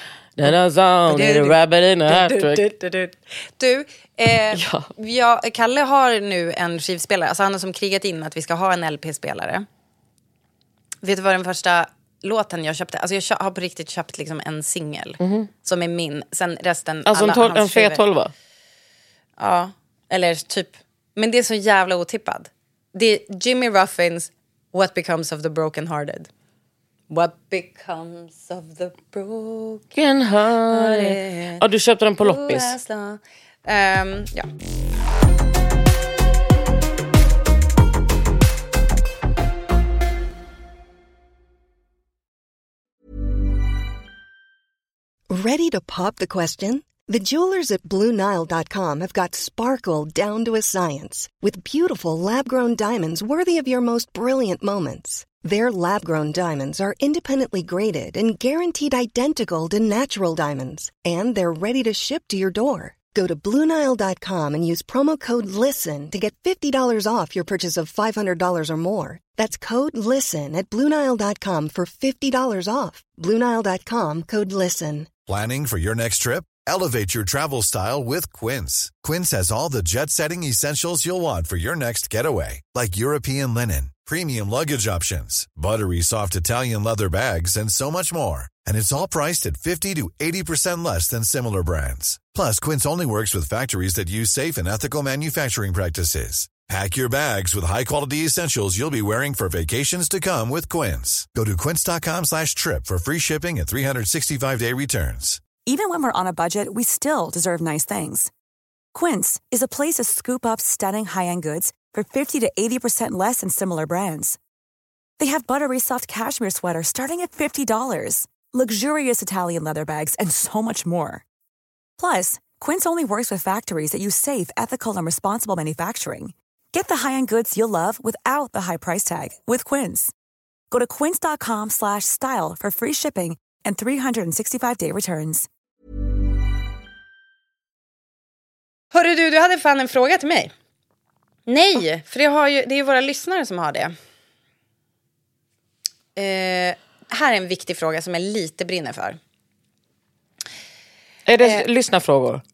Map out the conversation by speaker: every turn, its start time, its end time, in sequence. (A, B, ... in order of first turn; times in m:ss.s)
0:00.4-0:02.6 A
0:01.1-0:09.6 B
0:04.5-0:04.9 A
0:11.0-0:18.0 B
0:15.2-0:15.5 A
0:17.1-0:18.3 A
0:19.4-0:26.3 B
0:27.1-0:29.9 B
0:29.9-0:32.8 A
0:30.7-0:31.6 B
0:32.2-0:34.5 B
0:45.3-1:15.1 C
1:15.3-1:45.4 D
1:45.6-1:48.3 E
1:48.9-1:54.4 E
1:55.2-2:01.2 E
2:02.0-2:10.1 E
2:10.7-2:15.5 E
2:18.9-2:20.5 B
2:21.5-2:23.9 B
2:26.1-2:29.2 B
2:31.3-2:32.4 A